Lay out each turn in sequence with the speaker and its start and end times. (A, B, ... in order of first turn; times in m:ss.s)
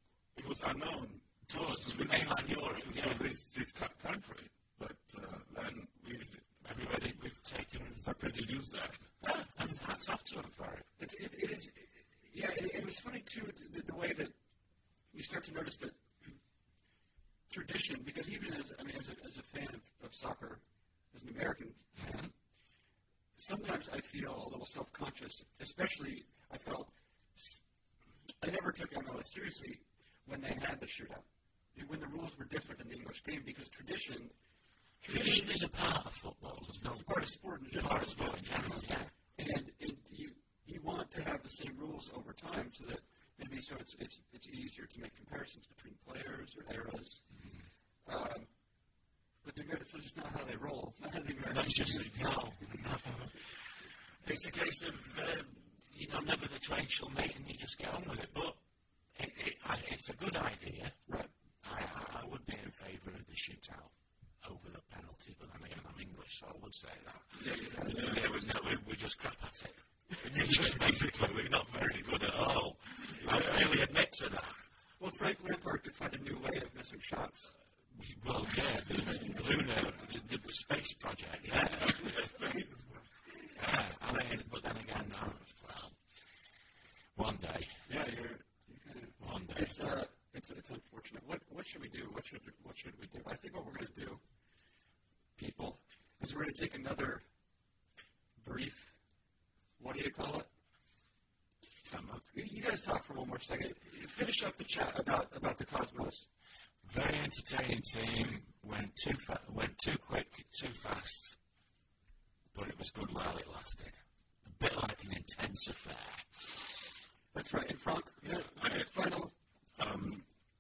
0:00.3-0:06.5 A
0:01.5-0:03.2 B
0:06.6-0:08.0 B
0:07.9-0:09.1 A
0:09.2-0:10.9 B
0:11.0-0:14.3 C
0:15.1-0:16.3 C
0:17.5-0:21.8 C
0:22.0-0:22.3 B
0:23.4-0:27.6 C
0:28.4-0:34.3 C
0:35.0-0:35.6 C
0:35.0-0:39.1 B
0:36.8-0:47.2 C
0:48.0-0:48.5 C
0:49.4-0:52.2 C
0:51.4-0:53.6 B
0:54.2-0:58.6 B
0:59.1-1:01.0 B
1:01.6-1:14.6 B
1:07.4-1:08.2 C
1:15.0-1:17.5 C
1:17.9-1:22.3 B
1:22.1-1:22.7 A
1:23.5-1:26.0 B
1:27.1-1:27.8 B
1:27.8-1:34.2 C
1:29.2-1:29.9 B
1:35.4-1:37.2 C
1:38.4-1:38.9 C
1:39.8-1:40.5 C
1:41.9-1:42.2 A
1:42.3-1:46.2 C
1:46.8-1:51.4 B
1:52.5-1:56.5 B
1:57.3-1:59.3 C
1:58.5-1:58.9 A
1:59.8-2:00.3 A